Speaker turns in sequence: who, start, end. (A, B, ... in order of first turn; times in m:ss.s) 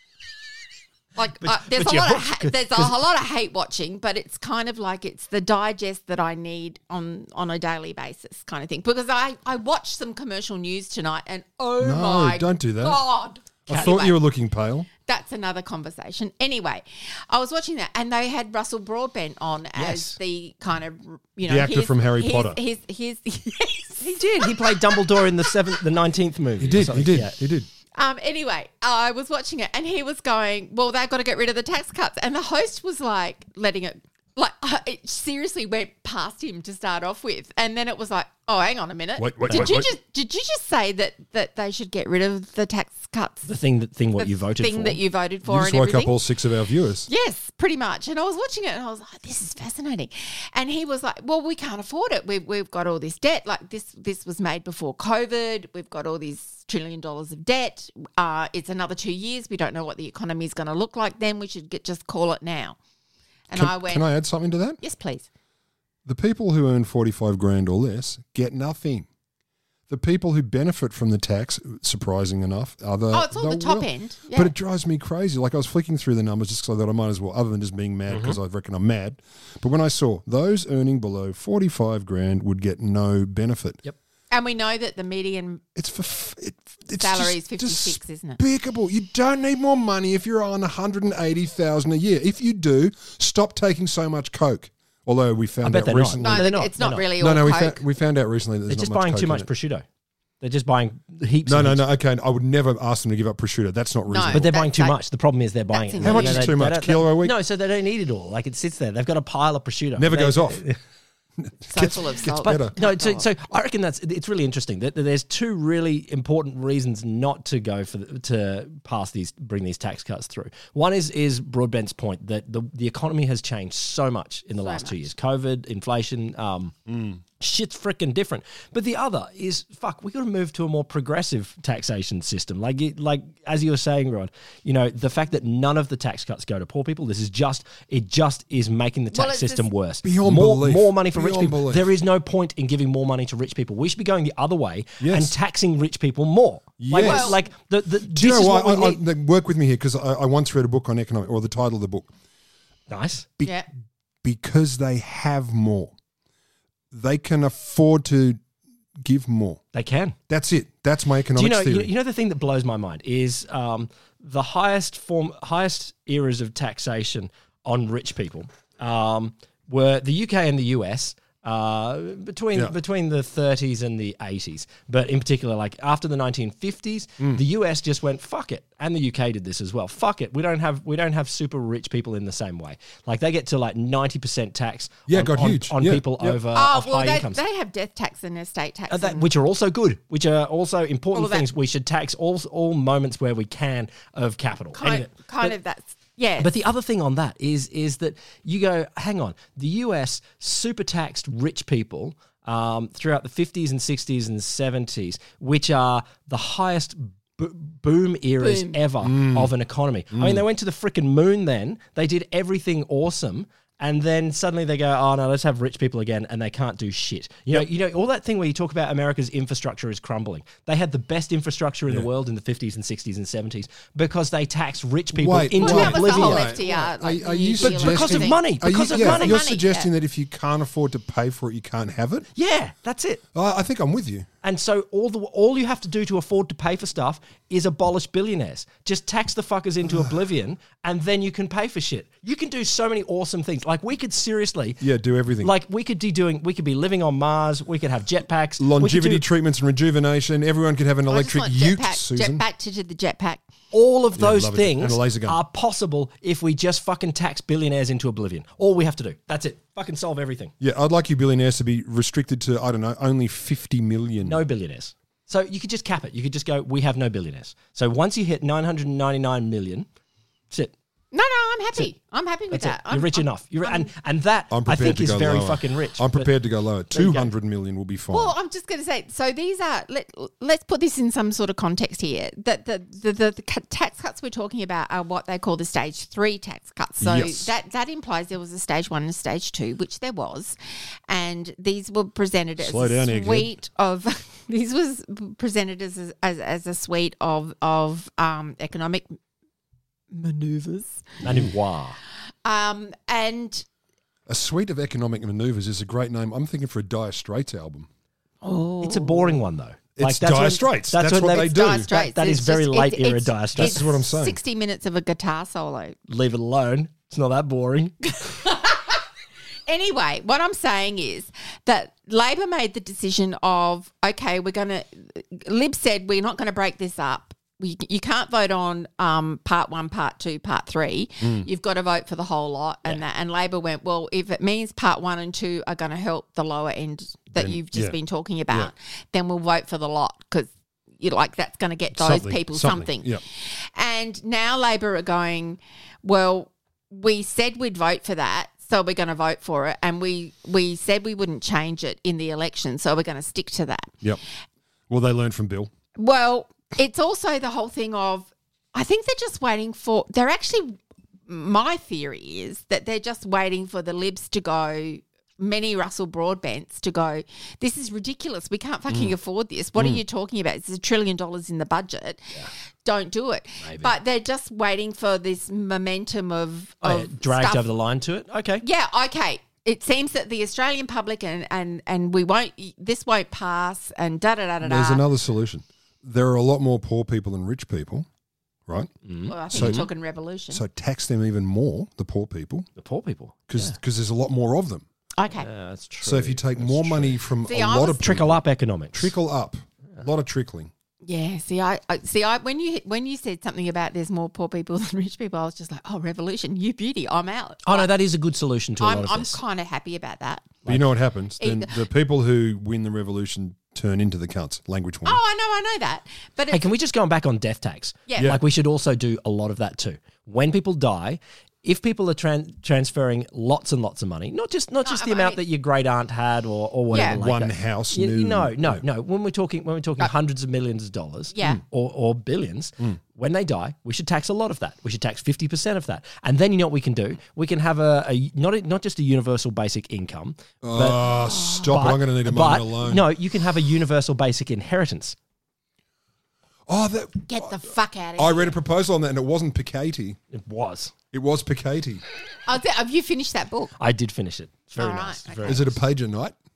0:01.2-0:14.2 A
0:01.4-0:02.9 B
0:11.8-0:13.0 C
0:13.7-0:14.9 C
0:13.7-0:14.0 B
0:15.1-0:25.6 A
0:19.8-0:20.2 B
0:21.5-0:22.6 C
0:24.0-0:27.4 B
0:26.6-0:27.7 C
0:28.0-0:43.5 A
0:39.2-0:39.9 C
0:43.5-0:45.0 B
0:44.2-0:46.2 A
0:45.5-0:47.1 C
0:47.1-1:02.8 A
1:03.5-1:04.0 A
1:03.5-1:04.8 C
1:04.8-1:05.3 A
1:06.1-1:09.1 C
1:09.9-1:23.8 C
1:13.1-1:14.5 A
1:18.1-1:18.4 B
1:24.3-1:25.6 A
1:25.8-1:36.5 C
1:27.0-1:28.4 A
1:35.6-1:37.1 B
1:36.2-1:37.8 A
1:37.2-1:39.5 C
1:38.7-1:39.8 B
1:40.4-1:41.8 B
1:41.4-1:44.5 C
1:44.1-1:45.0 A
1:44.3-1:50.8 B
1:45.7-1:46.5 A
1:46.0-1:47.4 C
1:50.0-1:50.6 C
1:51.4-1:52.7 C
1:51.7-1:53.3 A
1:52.4-2:06.8 B
2:04.6-2:05.0 A
2:06.9-2:07.2 C
2:07.4-2:29.0 B
2:19.1-2:19.7 A
2:20.0-2:21.9 C
2:25.0-2:25.3 C
2:26.8-2:27.4 C
2:27.0-2:27.4 A
2:28.1-2:32.1 C
2:32.9-2:33.3 B
2:33.4-2:33.7 A
2:34.2-2:35.9 C
2:36.9-2:38.4 C
2:39.0-2:39.6 C
2:39.7-2:40.2 B
2:40.3-2:41.9 C
2:41.4-3:07.4 B
3:05.1-3:06.4 C
3:06.5-3:09.3 A
3:08.9-3:15.6 B
3:11.1-3:11.5 A
3:14.7-3:16.5 A
3:16.4-3:46.6 B
3:28.4-3:28.8 A
3:29.0-3:29.5 C
3:30.1-3:30.4 C
3:45.1-3:52.3 C
3:45.6-3:49.9 A
3:47.6-3:49.4 B
3:52.4-3:53.2 B
3:53.3-3:54.3 C
3:54.4-4:04.8 B
4:04.8-4:05.5 C
4:05.4-4:09.2 B
4:08.6-4:12.4 C
4:11.1-4:13.4 A
4:13.7-4:20.5 B
4:14.2-4:15.4 C
4:20.6-4:24.4 C
4:24.2-4:29.9 B
4:31.1-4:33.9 A
4:32.5-4:36.3 B
4:34.5-4:38.3 C
4:36.9-4:37.3 B
4:38.1-4:50.6 A
4:47.0-4:47.5 C
4:51.1-4:59.2 A
4:52.6-4:53.5 C
5:00.1-5:01.1 A
5:01.2-5:02.0 B
5:02.4-5:03.6 A
5:04.3-5:07.9 C
5:08.4-5:09.4 A
5:08.8-5:13.8 B
5:10.0-5:11.9 C
5:11.3-5:16.0 A
5:13.6-5:14.4 C
5:16.1-5:18.0 B
5:18.1-5:19.0 A
5:19.7-5:53.9 A
5:31.2-5:31.5 C
5:37.4-5:38.0 C
5:42.0-5:43.2 C
5:54.9-5:55.7 C
5:56.0-6:12.3 A
6:12.8-6:17.7 A
6:13.6-6:13.9 B
6:16.8-6:18.6 B
6:18.6-6:25.0 A
6:24.6-6:28.1 C
6:29.0-6:29.9 B
6:29.3-6:30.6 A
6:29.5-6:29.9 C
6:30.5-6:32.7 C
6:32.8-6:33.8 B
6:33.5-6:34.8 C
6:35.2-6:35.5 A
6:35.4-6:37.2 B
6:36.0-6:40.7 C
6:37.5-6:38.0 A
6:38.0-6:39.1 B
6:41.0-6:47.9 A
6:47.7-6:49.4 B
6:48.8-6:50.5 A
6:50.7-6:55.2 C
6:51.4-6:51.8 A
6:55.0-6:56.7 A
6:56.5-7:25.2 B
6:58.1-6:58.4 A
7:04.8-7:05.4 A
7:06.9-7:07.2 A
7:07.1-7:08.8 C
7:11.3-7:11.6 A
7:20.6-7:23.1 C
7:21.2-7:21.7 A
7:26.7-7:27.6 C
7:27.3-7:28.6 A
7:28.2-7:30.2 C
7:30.3-7:30.9 B
7:31.1-7:32.0 C
7:32.5-7:33.7 A
7:33.8-7:35.8 B
7:34.8-7:35.7 A
7:35.4-7:36.4 C